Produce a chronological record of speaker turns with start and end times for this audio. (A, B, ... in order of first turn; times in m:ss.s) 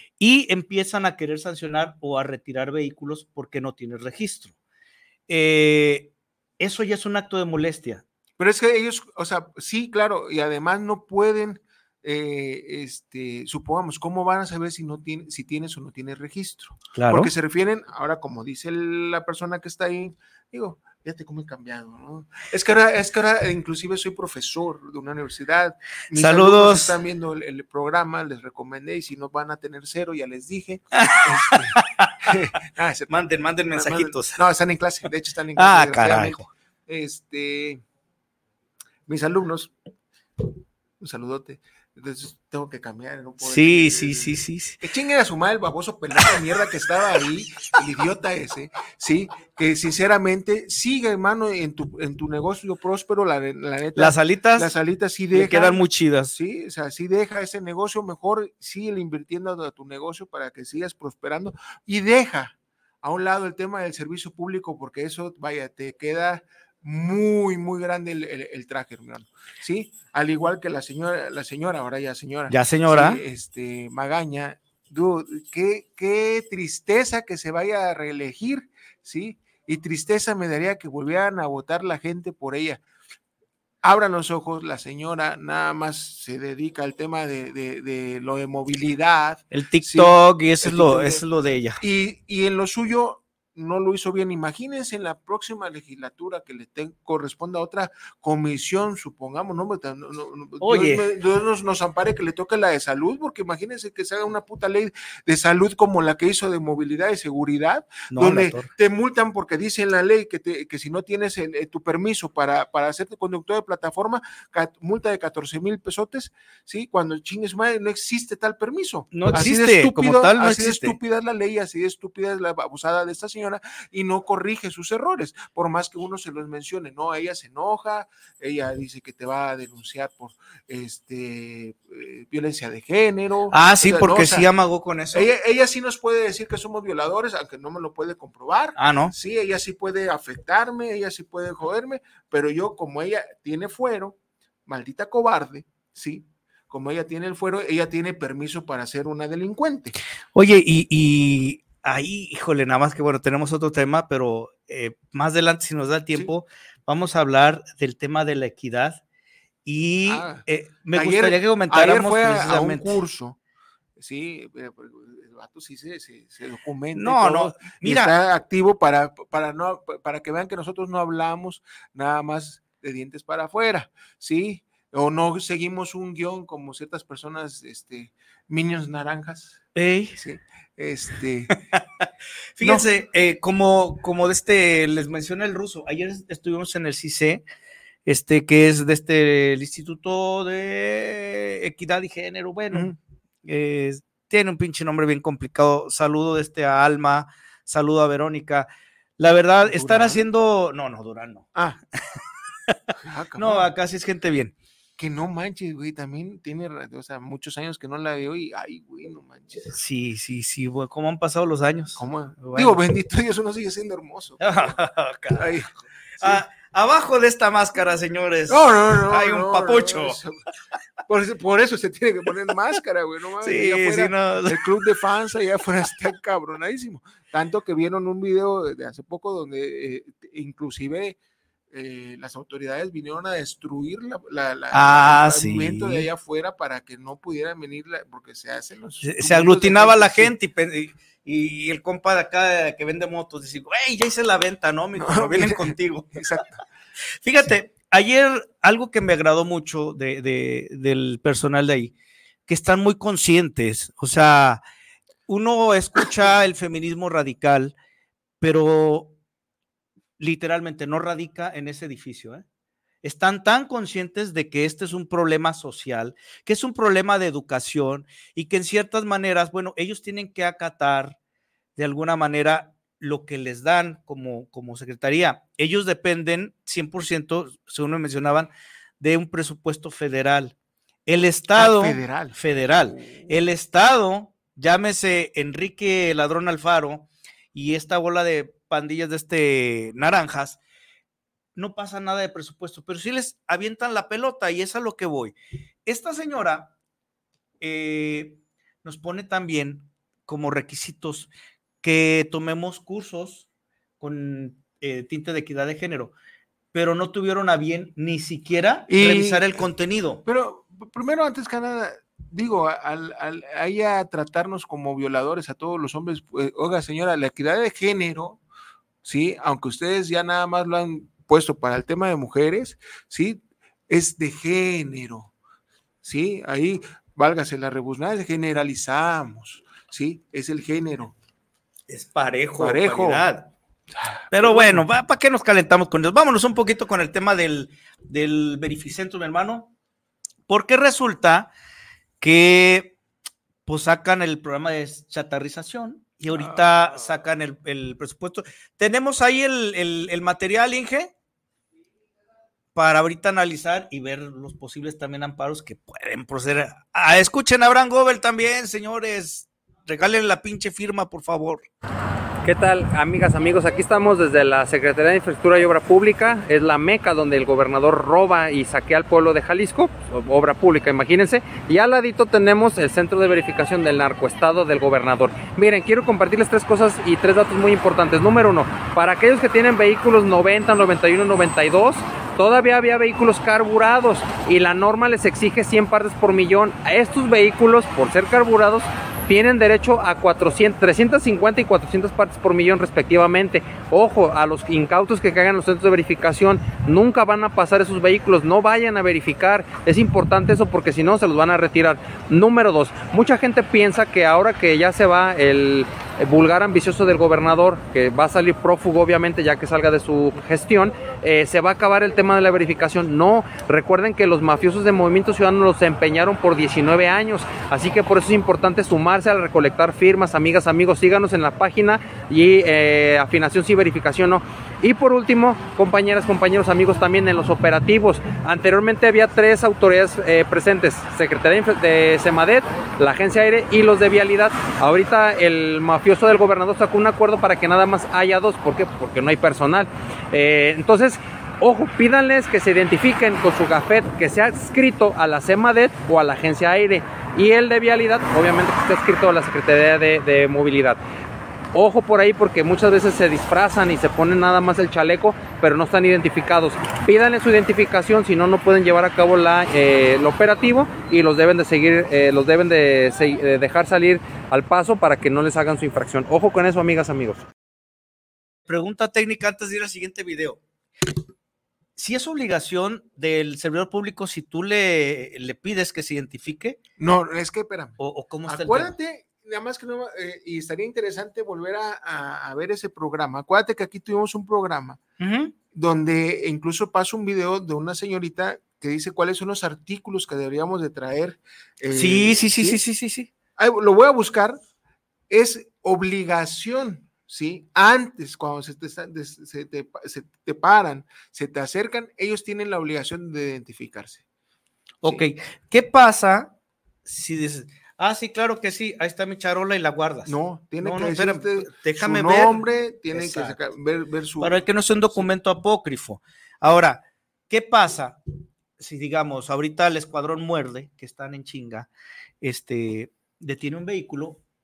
0:00.2-0:04.5 A
0:05.3-0:08.0 A
0:08.4-0:37.8 B
0:16.9-0:17.3 A
0:26.1-0:26.9 A
0:30.9-0:32.3 A
0:33.1-0:34.4 A
0:35.6-0:36.5 A
0:39.1-0:39.7 B
0:41.0-1:22.8 B
0:43.4-0:44.8 A
0:54.0-0:54.7 A
0:55.3-0:56.3 A
1:12.5-1:13.2 A
1:23.8-1:31.2 B
1:29.5-1:31.8 A
1:31.8-2:14.5 B
1:40.6-1:41.0 A
1:48.1-1:48.7 A
1:59.1-2:01.0 A
2:13.5-2:15.3 A
2:15.1-2:30.0 B
2:18.8-2:19.1 A
2:30.3-2:39.0 A
2:39.6-2:43.0 A
2:40.0-2:43.4 B
2:44.0-3:01.6 B
2:46.9-2:48.1 A
2:59.7-3:00.2 A
3:02.6-3:07.4 A
3:02.6-3:02.8 B
3:08.0-3:12.9 A
3:13.4-3:21.5 A
3:19.6-3:20.2 B
3:22.7-3:24.5 A
3:23.0-3:23.7 B
3:25.0-3:29.7 B
3:29.7-3:32.8 A
3:32.0-3:34.7 B
3:34.4-3:35.5 A
3:35.4-3:35.7 B
3:36.2-3:40.2 A
3:38.5-3:40.4 B
3:41.1-3:51.2 B
3:43.4-3:44.6 A
3:51.7-4:00.3 B
3:54.7-3:56.1 A
3:59.0-4:06.4 A
4:05.0-4:06.6 B
4:07.2-4:11.9 A
4:12.5-4:14.6 A
4:15.3-4:17.7 A
4:18.4-4:19.1 A
4:20.2-4:22.4 A
4:23.0-4:31.2 A
4:31.8-4:40.5 A
4:41.0-4:50.6 A
4:41.6-4:43.3 B
4:51.6-4:55.3 A
4:55.8-4:56.7 A
4:57.6-5:01.3 A
5:01.8-5:03.4 A
5:04.0-5:06.1 A
5:06.7-5:10.2 A
5:08.9-5:09.7 B
5:10.2-5:18.4 B
5:19.0-5:25.3 B
5:26.0-5:31.1 B
5:31.9-5:33.5 A
5:32.6-5:33.2 B
5:33.9-5:34.8 B
5:34.3-5:39.7 A
5:40.5-5:41.5 A
5:42.2-5:42.9 A
5:43.6-5:51.1 A
5:46.3-5:47.0 B
5:52.7-6:01.6 A
6:02.4-7:31.0 C
7:31.7-7:47.4 C
7:48.7-7:50.6 A
7:52.0-7:56.8 A
7:57.0-8:05.0 B
7:58.0-7:58.9 A
8:05.2-8:05.5 A
8:05.7-8:12.8 B
8:11.9-8:13.3 A
8:13.6-8:14.6 B
8:15.3-8:24.2 B
8:25.0-8:26.5 A
8:27.0-8:32.6 A
8:30.2-8:35.3 B
8:33.1-8:33.6 A
8:34.4-8:38.2 A
8:38.8-8:41.9 A
8:42.4-8:44.4 A